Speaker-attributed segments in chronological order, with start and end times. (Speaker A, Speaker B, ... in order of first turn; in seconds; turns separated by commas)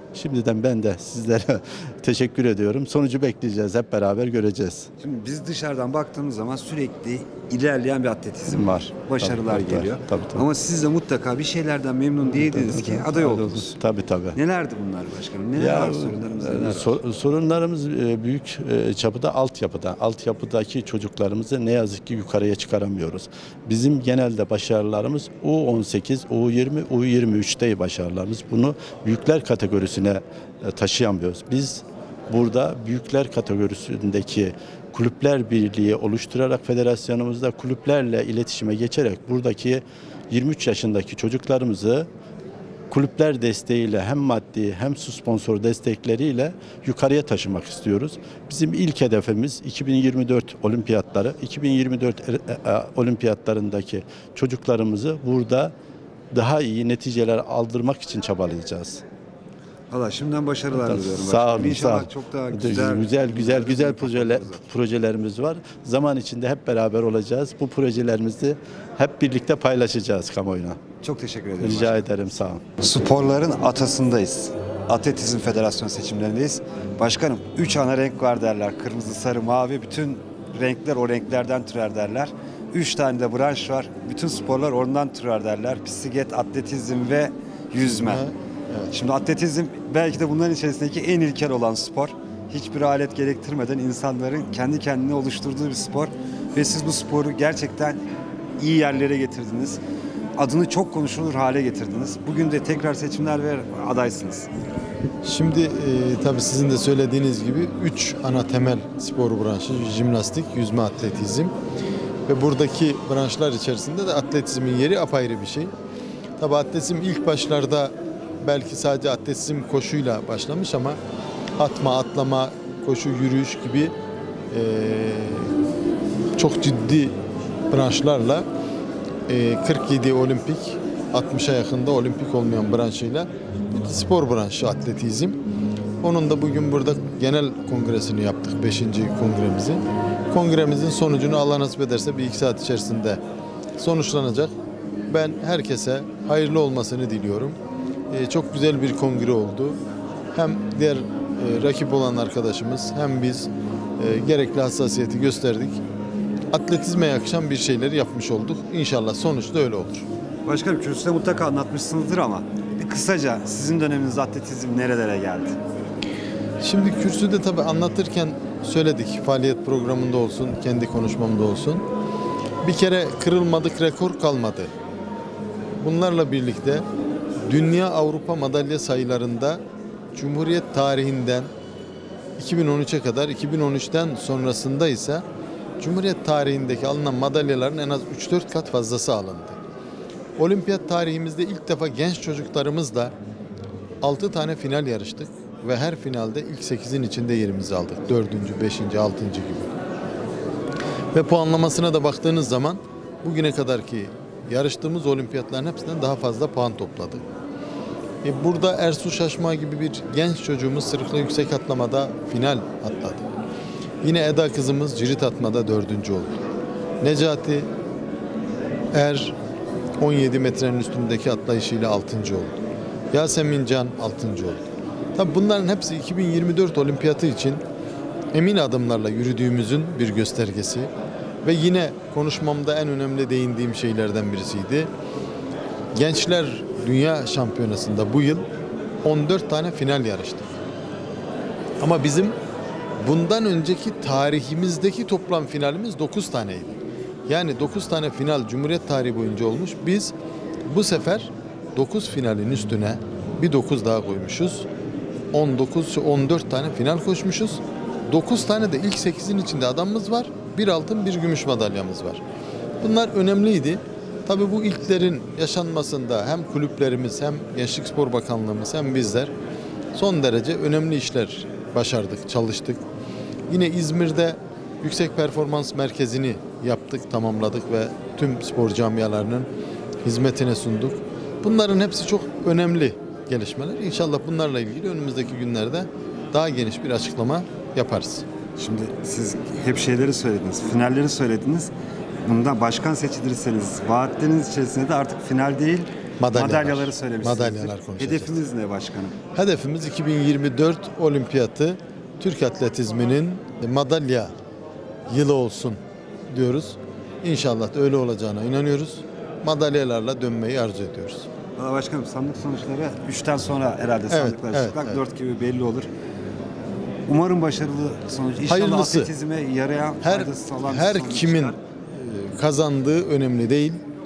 Speaker A: 0.1-4.9, Speaker B: 5.0-13.8, Speaker A: 8.5-10.4, Speaker A: 12.4-14.4, Speaker B: 14.3-17.0, Speaker A: 15.6-42.1, Speaker A: 42.9-55.7, Speaker A: 56.3-59.0, Speaker B: 59.9-64.6, Speaker A: 60.8-70.8, Speaker B: 71.0-72.0, Speaker A: 71.6-72.6, Speaker B: 72.8-88.3, Speaker C: 87.8-88.9, Speaker B: 88.9-98.0, Speaker B: 98.6-99.8, Speaker B: 100.4-104.5, Speaker C: 105.2-111.5, Speaker C: 112.3-115.7, Speaker C: 116.4-121.0, Speaker C: 121.6-123.9, Speaker C: 124.5-125.5, Speaker C: 126.4-127.1, Speaker C: 127.7-128.4, Speaker C: 129.3-135.4, Speaker C: 136.0-143.2, Speaker C: 143.8-144.5, Speaker C: 145.1-147.6, Speaker C: 148.1-149.8, Speaker C: 150.3-155.8, Speaker C: 156.5-160.1, Speaker B: 160.5-165.6, Speaker C: 166.6-171.8, Speaker C: 172.6-174.7, Speaker C: 175.8-176.8, Speaker C: 177.5-179.6, Speaker C: 180.1-181.5, Speaker C: 182.4-185.2, Speaker C: 185.8-189.6, Speaker C: 190.4-193.1, Speaker C: 194.0-199.7, Speaker C: 201.1-207.2, Speaker C: 208.2-213.2, Speaker C: 214.0-216.4, Speaker C: 217.0-217.7, Speaker C: 218.9-219.3, Speaker C: 220.0-222.6, Speaker C: 223.1-227.6, Speaker C: 228.3-230.9, Speaker C: 231.4-234.9, Speaker C: 235.9-238.5, Speaker C: 239.0-240.6, Speaker C: 241.8-242.3, Speaker C: 243.0-250.1, Speaker C: 250.7-254.7, Speaker C: 255.3-262.2, Speaker C: 262.8-269.3, Speaker C: 269.9-272.8, Speaker C: 273.5-279.5, Speaker C: 280.0-288.2, Speaker B: 288.6-291.7, Speaker B: 292.2-299.2, Speaker C: 296.2-298.4, Speaker C: 299.4-304.3, Speaker C: 305.1-305.8, Speaker C: 306.3-311.3, Speaker B: 311.6-315.9, Speaker C: 314.1-315.0, Speaker B: 317.1-321.6, Speaker C: 318.5-319.1, Speaker C: 320.0-323.8